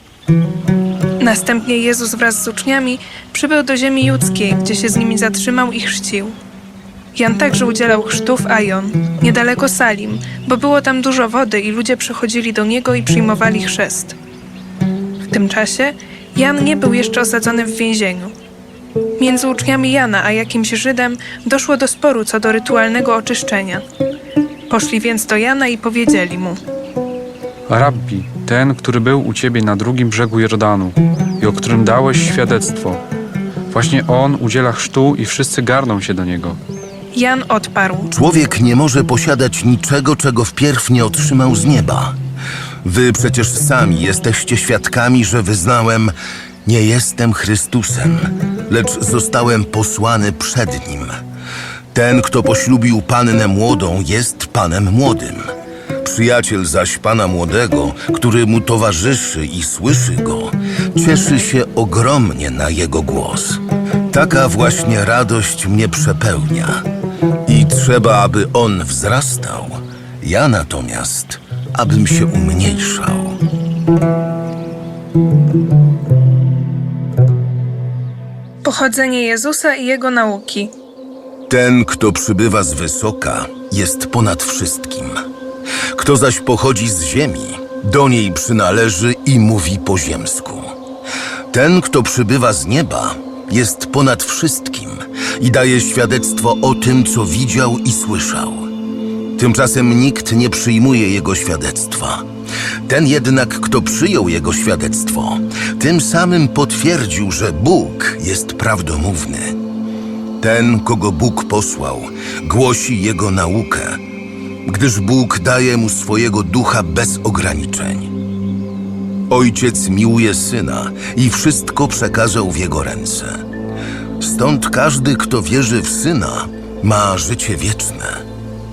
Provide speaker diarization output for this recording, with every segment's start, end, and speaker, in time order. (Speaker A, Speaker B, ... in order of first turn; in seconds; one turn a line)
Speaker A: 1.2-6.3
Speaker A: 7.1-14.2
Speaker A: 15.3-18.3
Speaker A: 19.2-23.8
Speaker A: 24.7-26.6
Speaker B: 27.7-33.0
Speaker B: 33.7-36.6
Speaker A: 37.1-38.1
Speaker C: 38.1-42.1
Speaker C: 42.8-46.1
Speaker C: 46.6-51.1
Speaker C: 51.9-66.8
Speaker C: 67.5-73.4
Speaker A: 78.6-80.7
Speaker C: 81.5-85.2
Speaker C: 85.9-90.7
Speaker C: 91.5-98.7
Speaker C: 99.3-102.3
Speaker C: 102.9-109.6
Speaker C: 110.4-114.0
Speaker C: 114.7-118.1
Speaker C: 119.3-123.4
Speaker C: 124.2-128.2